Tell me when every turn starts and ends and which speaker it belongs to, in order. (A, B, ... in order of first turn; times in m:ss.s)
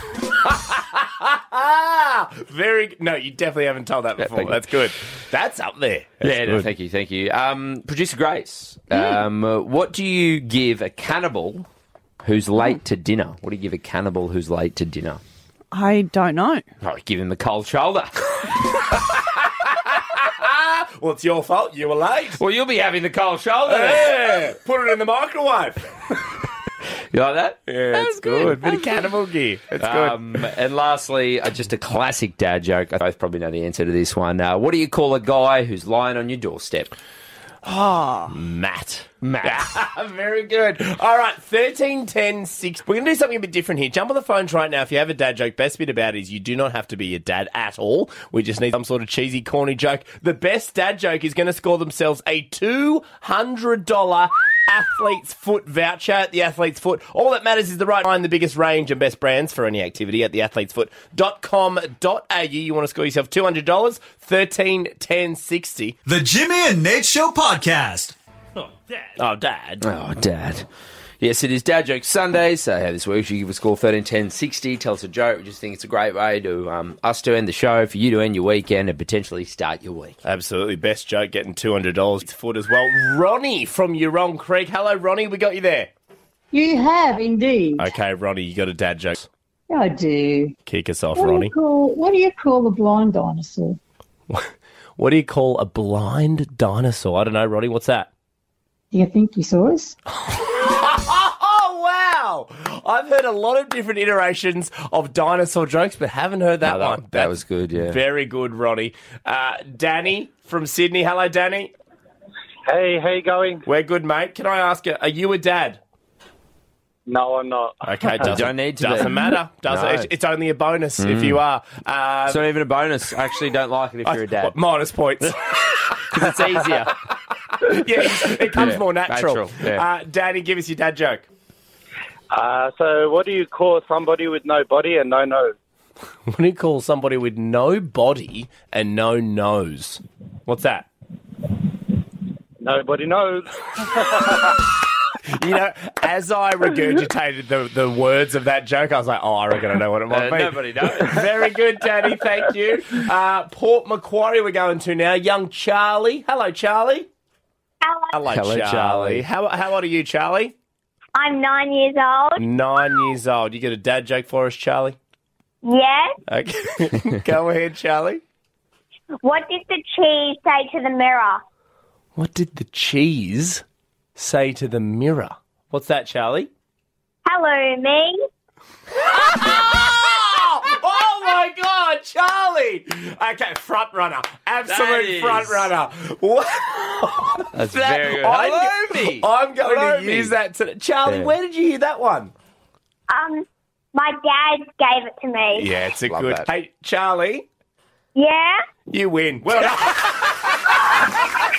0:00.4-0:06.7 A
0:04.2-0:04.6 B
0:06.2-0:11.7 B
0:08.9-0:09.2 C
0:12.2-0:15.2 B
0:15.7-0:16.6 C
0:16.8-0:18.5 B
0:18.9-0:22.4 A
0:22.4-0:24.2 B
0:23.7-0:25.8 A
0:27.1-0:27.6 B
0:27.7-0:30.4 A
0:27.9-0:29.1 C
0:29.8-0:36.9 B
0:37.7-0:38.3 C
0:38.3-1:06.0 A
0:39.2-0:39.6 B
1:06.1-1:08.2 D
1:09.2-1:09.8 A
1:09.8-1:10.7 B
1:11.2-1:20.2 B
1:20.2-1:25.9 A
1:26.5-1:27.9 E
1:27.8-1:29.3 A
1:29.7-1:30.6 E
1:30.7-1:31.5 A
1:31.2-1:33.8 E
1:34.3-1:38.1 A
1:38.9-1:40.0 E
1:40.2-1:51.7 A
1:46.6-1:48.0 B
1:52.7-1:53.6 F
1:53.6-1:55.8 A
1:57.1-1:57.8 F
1:57.8-2:02.4 A
1:58.2-2:00.1 B
2:01.0-2:01.4 B
2:02.3-2:04.6 B
2:04.1-2:06.4 A
2:06.0-2:07.0 B
2:07.6-2:11.2 A
2:08.2-2:09.8 B
2:12.3-2:15.6 F
2:16.3-2:20.9 A
2:22.6-2:24.7 F
2:25.3-2:37.1 A
2:30.1-2:31.5 B
2:37.8-2:38.2 G
2:38.1-2:40.5 A
2:38.3-2:39.2 B
2:41.2-2:42.4 G
2:42.4-2:45.0 A
2:45.6-2:46.2 G
2:46.3-2:48.2 A
2:49.2-2:51.4 G
2:52.2-2:53.6 A
2:54.2-2:56.5 A
2:57.3-2:58.2 G
2:59.0-3:12.3 A
3:04.7-3:05.7 B
3:07.5-3:10.3 B
3:11.1-3:11.3 B
3:13.1-3:15.7 G
3:15.6-3:17.5 A
3:16.1-3:16.5 B
3:18.2-3:18.6 G
3:18.9-3:21.2 A